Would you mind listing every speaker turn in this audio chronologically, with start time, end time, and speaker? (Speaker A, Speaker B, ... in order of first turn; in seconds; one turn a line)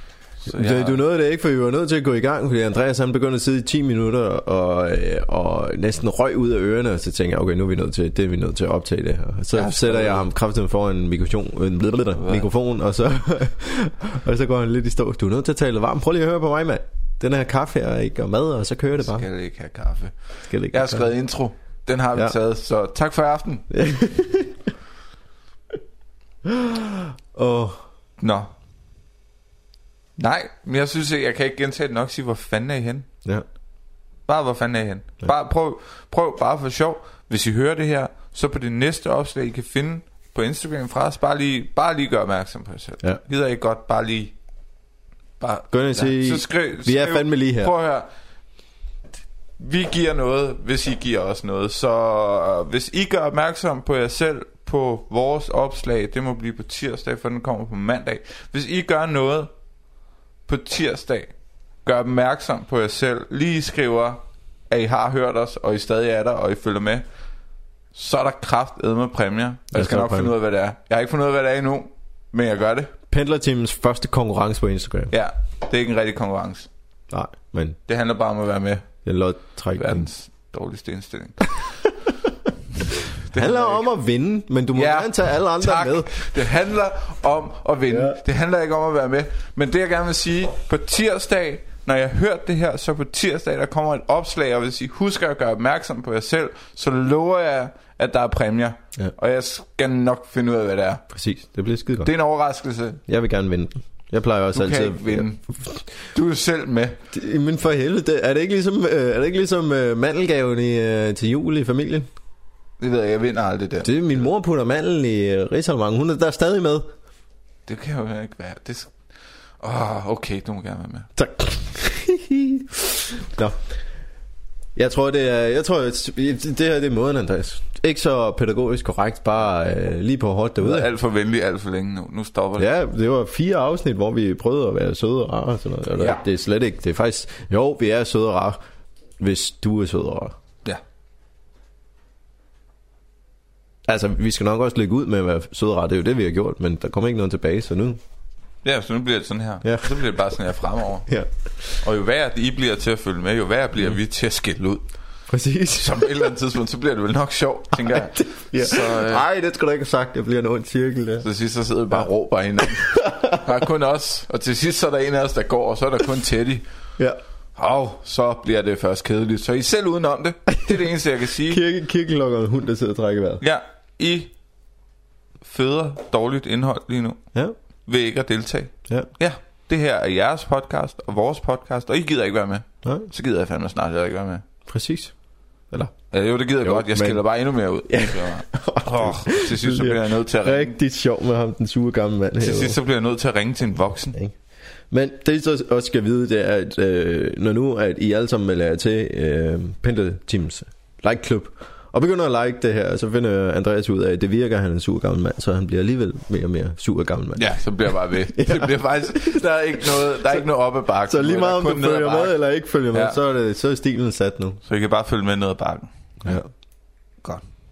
Speaker A: 0.4-1.0
Speaker B: 0.5-19.3
Speaker A: 9.5-10.2
Speaker A: 12.2-12.4
Speaker A: 19.0-23.7
Speaker B: 20.5-21.1
Speaker B: 23.7-24.7
Speaker B: 26.4-27.8
Speaker A: 28.2-28.5
Speaker A: 30.2-33.1
Speaker A: 34.3-44.3
Speaker A: 45.4-48.1
Speaker B: 45.7-47.7
Speaker A: 49.6-59.5
Speaker A: 60.5-61.3
Speaker A: 61.8-67.0
Speaker A: 67.9-72.9
Speaker B: 69.7-70.3
Speaker B: 73.1-75.1
Speaker A: 75.1-76.7
Speaker B: 77.1-77.8
Speaker A: 77.9-78.9
Speaker B: 79.0-80.1
Speaker A: 79.7-81.7
Speaker A: 82.8-83.9
Speaker B: 83.3-86.3
Speaker A: 84.7-101.0
Speaker B: 87.9-88.2
Speaker B: 101.1-102.1
Speaker A: 102.0-103.0
Speaker B: 103.1-105.8
Speaker A: 104.5-105.4
Speaker A: 106.0-107.0
Speaker B: 107.1-112.1
Speaker A: 112.8-114.0
Speaker B: 113.8-116.9
Speaker A: 117.7-119.0
Speaker A: 119.6-121.1
Speaker B: 121.2-123.6
Speaker B: 124.7-130.9
Speaker A: 130.6-132.7
Speaker B: 132.6-138.6
Speaker B: 139.2-140.3
Speaker B: 143.8-148.0
Speaker A: 148.6-151.1
Speaker B: 149.6-150.0
Speaker A: 151.8-154.8
Speaker B: 155.3-156.3
Speaker A: 155.8-159.2
Speaker B: 157.8-161.2
Speaker A: 161.2-166.6
Speaker B: 162.6-163.5
Speaker A: 167.6-171.6
Speaker B: 171.5-173.4
Speaker A: 173.4-174.3
Speaker A: 175.4-177.2
Speaker A: 177.8-184.4
Speaker B: 182.8-183.1
Speaker B: 184.7-185.1
Speaker A: 186.1-190.7
Speaker B: 186.6-187.2
Speaker B: 187.9-192.8
Speaker A: 192.4-194.2
Speaker B: 194.9-210.4
Speaker A: 207.3-212.3
Speaker B: 211.1-214.6
Speaker A: 212.9-213.2
Speaker A: 214.7-216.4